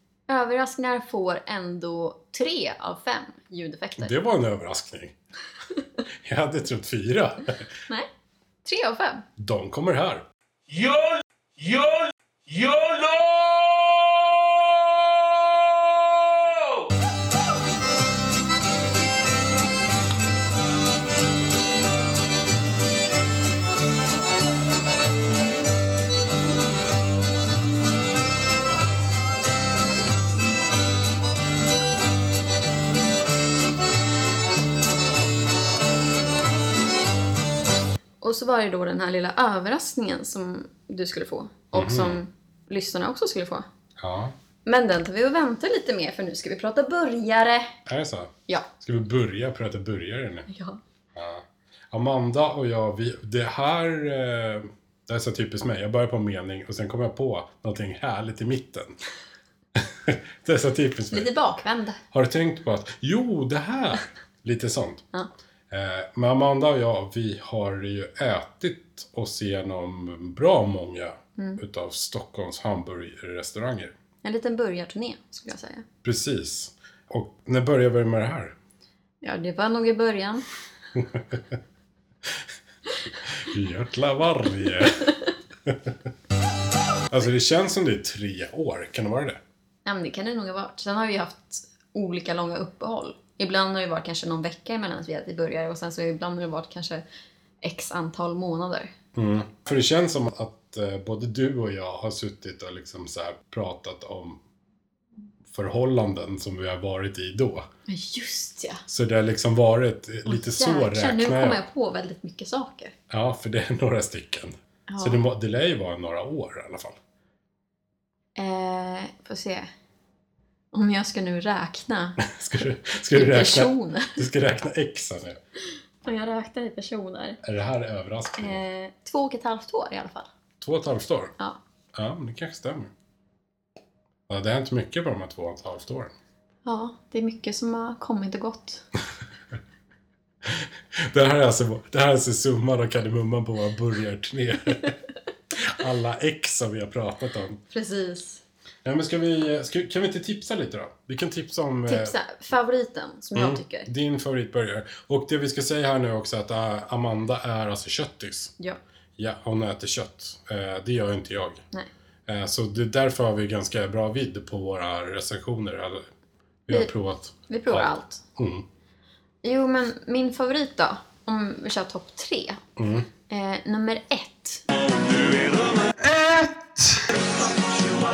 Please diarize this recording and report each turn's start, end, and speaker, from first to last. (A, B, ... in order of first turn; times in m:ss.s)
0:00.3-0:04.1 A
0:04.0-0:05.1 B
0:06.2-0:07.6 B
0:08.6-0:09.2 A
0:09.4-0:10.2 B
0:10.7-0:14.3 C
0:16.0-0:16.5 C
0:38.2-0:43.7 A
0:41.7-0:42.2 B
0:44.0-0:44.3 B
0:44.6-0:47.8 A
0:47.8-0:50.5 B
0:50.5-0:50.8 A
0:51.1-0:59.0 B
0:59.8-1:01.3 B
1:01.1-1:02.0 A
1:02.1-1:05.0 B
1:05.7-1:13.9 B
1:14.2-1:15.8 A
1:16.0-1:18.5 B
1:19.2-1:20.4 A
1:21.0-1:21.4 B
1:23.3-1:25.1 B
1:27.1-1:29.4 B
1:29.8-1:37.0 A
1:37.6-1:38.9 A
1:39.1-1:44.4 B
1:45.5-1:47.7 B
1:47.9-1:48.8 A
1:48.9-1:51.6 B
1:50.2-1:52.9 A
1:53.1-1:57.0 B
1:54.9-1:55.2 A
1:58.4-1:59.7 A
2:00.7-2:02.2 A
2:02.2-2:05.4 B
2:03.1-2:04.2 A
2:06.0-2:07.4 A
2:07.4-2:08.6 B
2:08.4-2:10.3 A
2:10.6-2:11.3 B
2:11.9-2:12.9 B
2:14.3-2:16.1 B
2:16.6-2:18.8 A
2:20.4-2:25.0 B
2:25.5-2:27.6 B
2:27.7-2:28.4 A
2:28.8-2:32.1 B
2:31.9-2:33.9 A
2:33.3-2:38.5 B
2:39.2-2:41.6 B
2:42.3-2:46.0 B
2:46.7-2:48.6 B
2:47.5-2:48.2 A
2:49.4-2:52.6 A
2:52.8-2:53.1 B
2:53.3-2:54.6 A